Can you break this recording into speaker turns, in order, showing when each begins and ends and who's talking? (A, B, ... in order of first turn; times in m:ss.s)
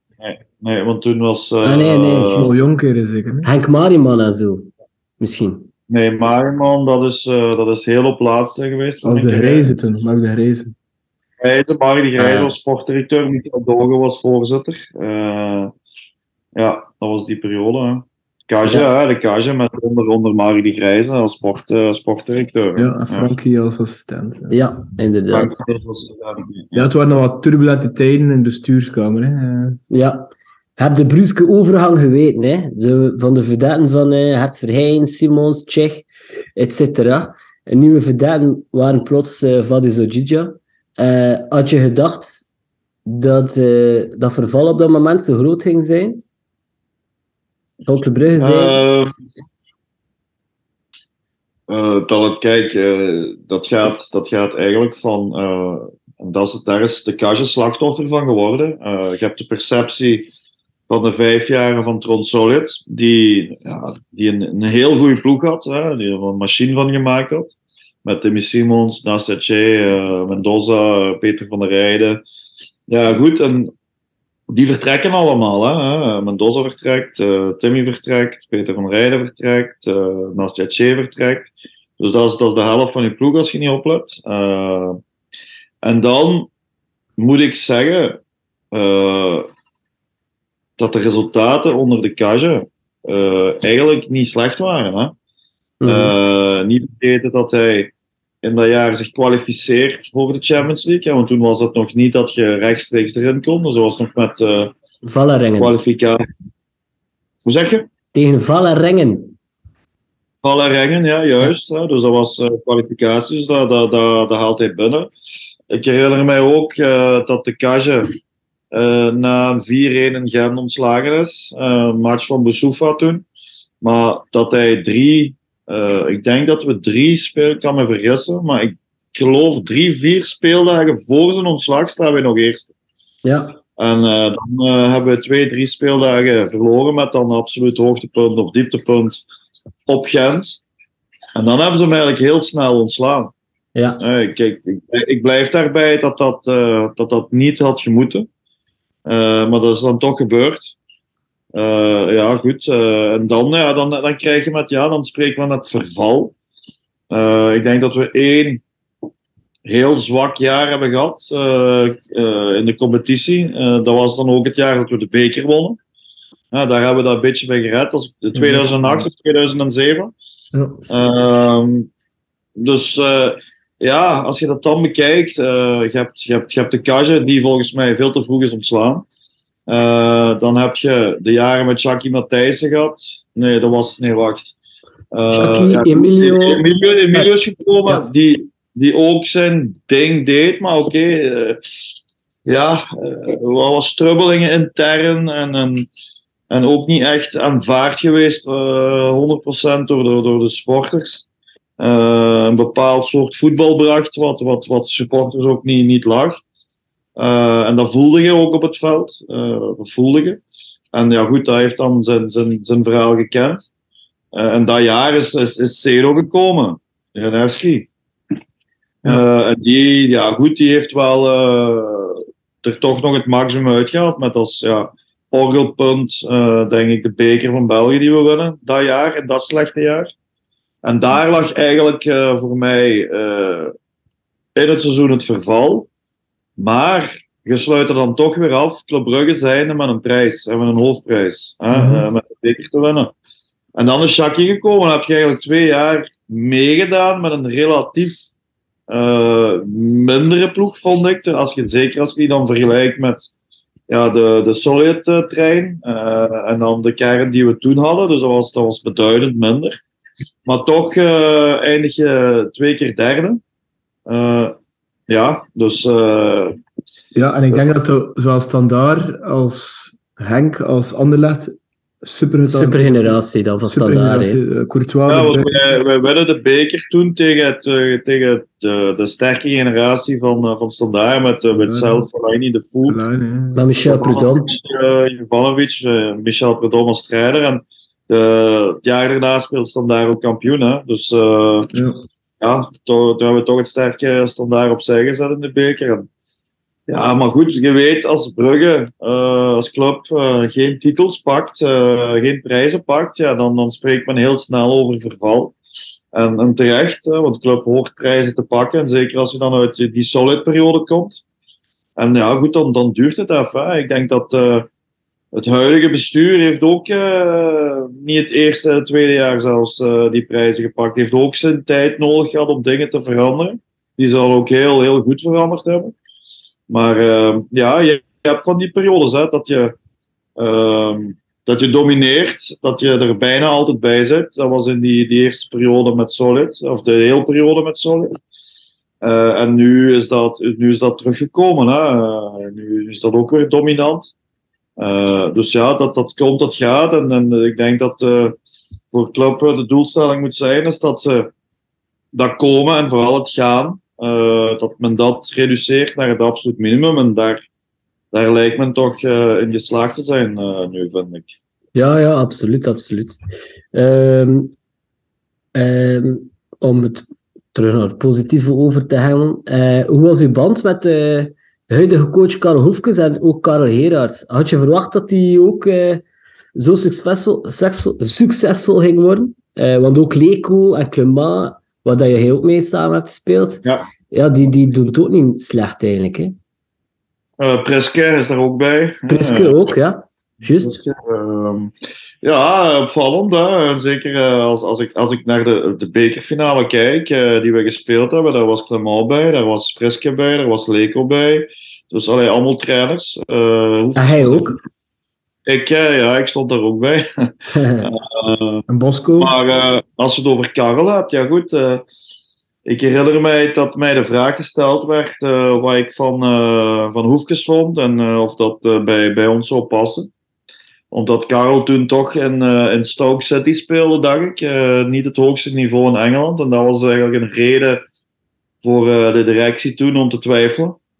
0:00.2-0:02.5 A
0:01.6-0:02.5 B
0:02.4-0:03.5 C
0:03.4-0:05.7 B
0:05.9-0:09.7 A
0:09.0-0:10.7 C
0:11.4-0:15.7 A
0:12.2-0:12.5 B
0:16.6-0:23.3 A
0:22.8-0:24.6 C
0:24.5-0:25.5 B
0:25.3-0:26.9 A
0:26.7-0:29.8 C
0:29.9-0:42.5 B
0:43.0-0:46.2 B
0:47.9-0:48.8 B
0:48.4-0:49.1 A
0:51.7-1:00.3 A
1:00.9-1:12.2 A
1:12.9-1:13.7 A
1:14.5-1:25.0 A
1:25.8-1:26.5 A
1:27.2-1:28.2 A
1:28.7-1:29.5 A
1:30.8-1:35.1 A
1:35.8-1:36.1 B
1:35.8-1:37.9 A
1:38.4-1:44.7 A
1:45.0-1:45.7 B
1:45.6-1:46.2 A
1:47.4-1:47.9 A
1:48.1-1:49.4 B
1:50.4-1:55.1 A
1:55.7-1:58.1 A
1:58.7-2:03.2 A
2:03.8-2:12.7 A
2:13.2-2:13.6 B
2:13.8-2:19.2 A
2:19.9-2:20.6 A
2:21.3-2:23.3 A
2:23.7-2:24.0 B
2:24.0-2:28.3 A
2:29.0-2:30.7 A
2:31.5-2:36.3 A
2:37.1-2:38.6 A
2:39.6-2:45.8 A
2:46.5-2:50.1 A
2:48.3-2:49.0 C
2:50.5-2:51.0 C
2:50.9-2:51.9 A
2:52.6-2:59.0 A
2:59.7-3:04.6 A
3:05.1-3:11.6 A
3:05.3-3:07.3 B
3:12.4-3:15.9 A
3:16.5-3:21.3 A
3:21.8-3:26.4 A
3:27.2-3:30.4 A
3:30.9-3:33.7 A
3:34.3-3:37.9 A
3:39.0-3:50.1 A
3:50.8-3:53.7 A
3:54.5-3:55.9 A
3:56.6-4:03.1 A
4:01.7-4:02.1 C
4:03.8-4:08.2 A
4:08.9-4:13.3 A
4:13.9-4:19.8 A
4:20.4-4:23.4 A
4:24.0-4:24.5 A
4:25.1-4:26.6 A
4:27.1-4:35.6 C
4:32.5-4:34.4 B
4:35.1-4:43.0 A
4:41.5-4:42.1 C
4:42.8-4:43.6 C
4:43.5-4:44.5 B
4:43.8-4:51.7 A
4:51.7-4:52.0 C
4:52.4-4:56.1 A
4:56.9-5:05.5 A
5:06.1-5:11.2 A
5:12.0-5:14.7 A
5:15.3-5:25.9 A
5:26.7-5:29.7 A
5:30.4-5:38.1 A
5:39.0-5:44.1 A
5:44.8-5:48.4 A
5:48.9-5:51.3 A
5:52.1-5:57.4 A
5:58.1-6:01.3 A
6:01.7-6:03.2 B
6:03.7-6:04.5 B
6:05.5-6:16.0 B
6:16.6-6:26.3 B
6:27.4-6:29.7 A
6:29.1-6:30.8 B
6:30.6-6:44.6 A
6:44.0-6:44.6 B
6:45.4-6:48.6 A
6:47.5-6:47.9 B
6:48.7-6:49.4 C
6:49.2-6:51.8 A
6:52.6-7:00.1 A
7:00.9-7:07.8 A
7:08.6-7:10.8 A